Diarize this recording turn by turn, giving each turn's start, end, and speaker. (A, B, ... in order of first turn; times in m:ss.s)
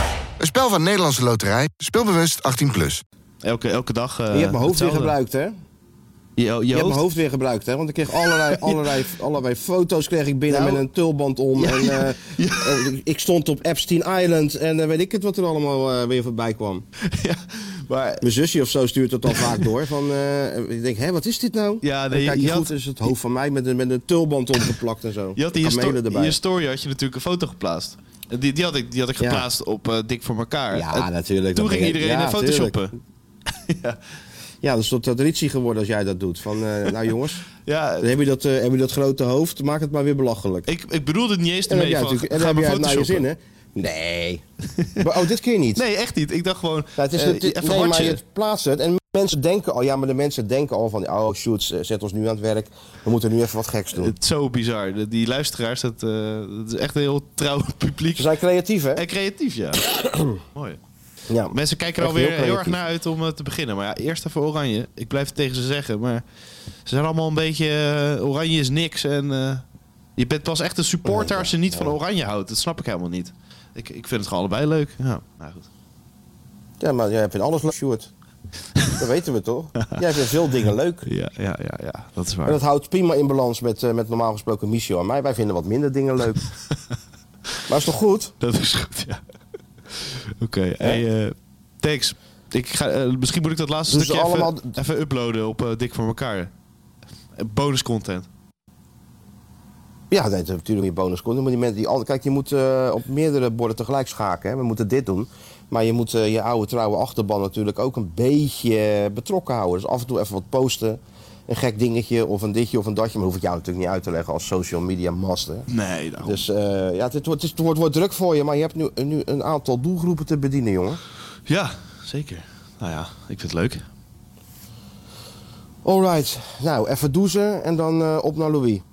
0:00.4-0:03.0 A
0:03.4-0:05.2 B
0:04.3-0:05.5 C
0:06.4-0:07.0 B
0:06.7-0:16.8 C
0:08.2-0:09.0 B
0:10.5-0:10.8 B
0:11.6-0:12.9 B
0:17.0-0:18.2 B
0:18.2-0:26.4 C
0:19.3-0:19.6 B
0:21.8-0:23.1 B
0:25.4-0:33.0 B
0:29.2-0:29.5 C
0:30.7-0:32.8 C
0:33.6-0:34.0 B
0:34.6-0:37.5 C
0:37.6-0:38.1 B
0:38.0-0:40.7 C
0:40.7-0:43.2 B
0:41.7-0:44.4 C
0:44.8-0:45.0 B
0:45.0-0:45.8 C
0:45.8-0:48.2 B
0:47.0-0:54.2 C
0:53.9-0:58.3 B
0:58.2-0:59.0 C
0:59.0-1:00.8 B
1:00.0-1:00.3 C
1:01.3-1:02.8 C
1:01.5-1:06.2 B
1:06.9-1:09.6 B
1:10.2-1:15.7 B
1:11.0-1:12.0 C
1:16.8-1:18.1 C
1:19.0-1:21.1 C
1:21.1-1:22.6 B
1:22.4-1:26.5 C
1:27.7-1:28.3 C
1:28.4-1:29.2 B
1:29.9-1:36.5 B
1:33.9-1:34.8 C
1:37.4-1:38.3 B
1:40.1-1:55.7 C
1:55.7-1:56.4 B
1:56.2-2:01.0 C
2:01.5-2:03.8 B
2:05.8-2:08.8 C